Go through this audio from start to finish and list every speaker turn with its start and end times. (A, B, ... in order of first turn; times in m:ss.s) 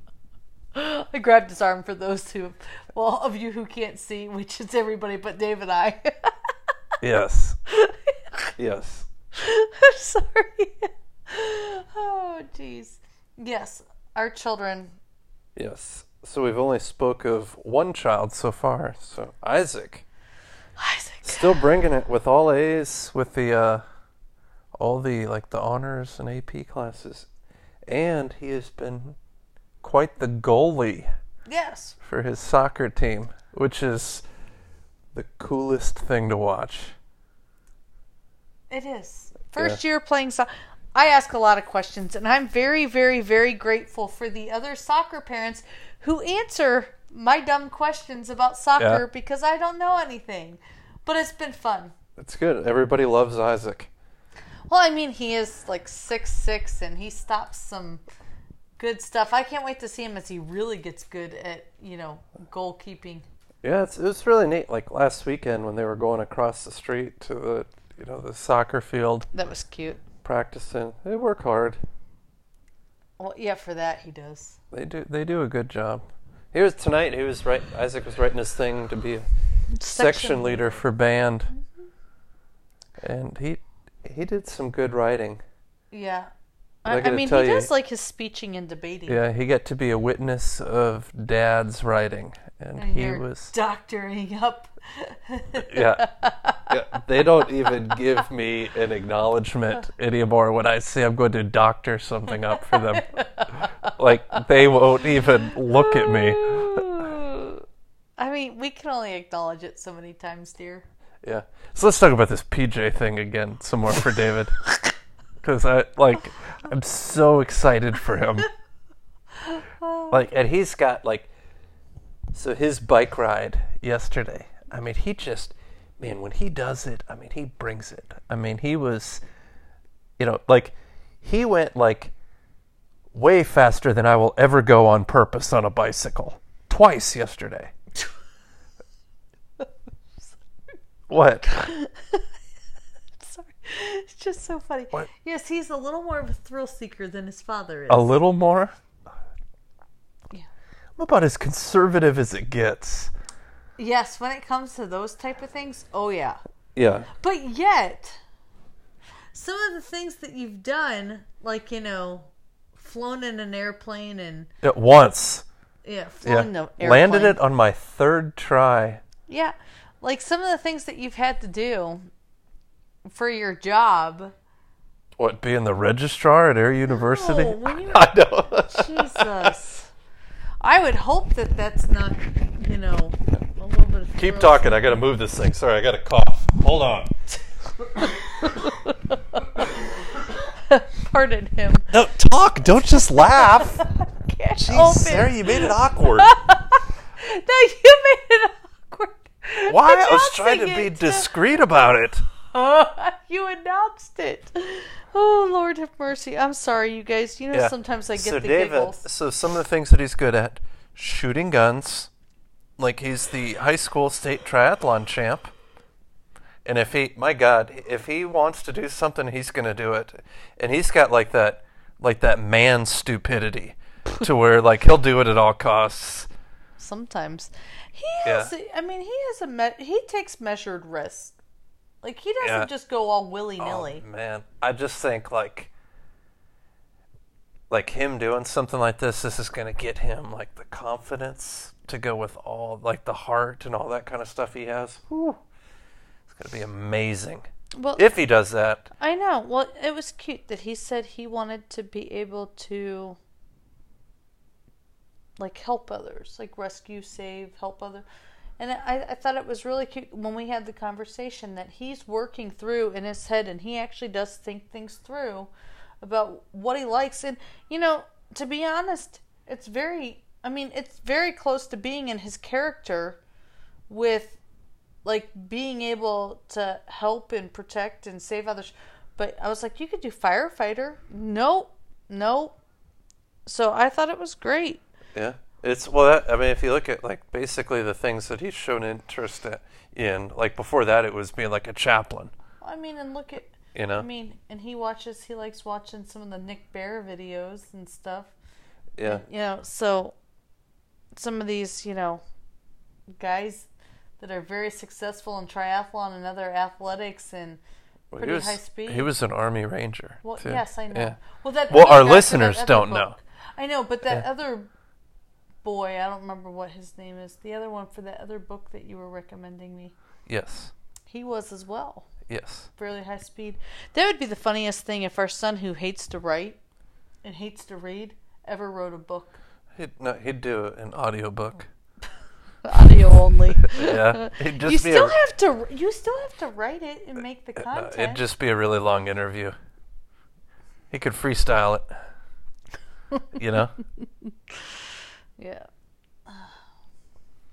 0:00.7-0:06.3 A
0:07.0-0:07.6 B
0:07.7-0:08.5 A
0:08.6-0:09.1 B
0:09.3-0:14.9 A
0:15.6-0:20.0 B
0:20.8-0:21.6 A
0:21.2-0:23.8 B
0:24.8-0:27.3 B
0:27.9-0:29.2 B
0:29.8-0:31.1 B
0:31.5-0:32.0 A
0:32.0-0:34.2 B
0:35.1-0:37.0 B
0:38.7-0:51.9 A
0:48.8-0:49.0 B
0:52.2-0:53.9 B
0:54.7-0:58.0 A
0:58.8-1:03.2 A
1:03.6-1:09.3 B
1:09.3-1:10.0 A
1:10.2-1:11.8 B
1:13.2-1:14.6 A
1:14.7-1:19.3 B
1:19.7-1:20.8 A
1:19.8-1:21.5 B
1:21.5-1:21.9 A
1:23.0-1:25.4 B
1:25.9-1:26.3 A
1:26.8-1:29.2 A
1:26.9-1:27.7 B
1:29.1-1:33.5 B
1:32.8-1:36.9 A
1:35.6-1:36.0 B
1:36.7-1:47.0 B
1:42.5-1:43.9 A
1:45.7-1:47.6 A
1:48.2-1:50.8 A
1:51.2-1:54.6 B
1:55.4-1:58.5 B
1:59.4-2:00.2 A
2:00.1-2:01.3 B
2:02.3-2:09.2 B
2:10.2-2:12.1 B
2:13.1-2:17.7 B
2:21.1-2:21.5 B
2:21.4-2:22.2 A
2:23.2-2:28.1 A
2:27.9-2:28.7 B
2:31.0-2:33.1 B
2:33.8-2:36.4 A
2:36.7-2:37.1 B
2:37.1-2:38.2 A
2:39.3-2:44.5 A
2:44.6-2:45.4 B
2:45.8-2:47.4 A
2:46.2-2:49.0 B
2:49.3-2:52.1 A
2:53.0-2:54.3 A
2:55.2-2:59.5 B
2:56.9-2:59.9 A
3:00.6-3:04.8 A
3:04.2-3:07.1 B
3:08.0-3:09.8 A
3:10.7-3:11.9 A
3:11.9-3:13.8 B
3:13.2-3:21.4 A
3:14.6-3:16.3 B
3:19.7-3:22.2 B
3:22.4-3:29.0 A
3:27.5-3:32.1 B
3:32.8-3:35.5 B
3:36.6-3:46.3 B
3:46.8-3:51.3 A
3:48.2-3:48.5 B
3:52.0-3:54.0 A
3:52.4-3:52.7 B
3:53.6-3:55.7 B
3:57.7-4:05.4 B
4:06.3-4:07.4 B
4:07.8-4:08.0 A
4:08.0-4:08.9 B
4:09.0-4:13.2 A
4:15.4-4:18.0 A
4:18.6-4:25.5 A
4:26.0-4:33.2 A
4:33.9-4:34.4 A
4:35.0-4:42.5 A
4:43.4-4:44.8 A
4:45.1-4:52.3 B
4:52.6-4:58.3 A
4:53.7-4:54.0 B
4:59.0-4:59.2 B
4:59.0-5:00.1 A
5:01.1-5:02.2 A
5:03.2-5:03.7 A
5:04.2-5:07.6 A
5:08.1-5:11.2 B
5:08.2-5:09.1 A
5:10.2-5:14.7 A
5:11.7-5:13.2 B
5:15.6-5:19.9 A
5:20.2-5:20.7 B
5:21.1-5:22.1 A
5:22.3-5:22.7 B
5:22.8-5:26.6 A
5:27.2-5:29.4 A
5:29.7-5:31.7 B
5:32.6-5:38.2 A
5:33.6-5:35.2 B
5:37.6-5:39.6 B
5:40.9-5:41.9 B
5:43.4-5:43.7 B
5:45.4-5:45.7 A
5:46.3-5:46.5 A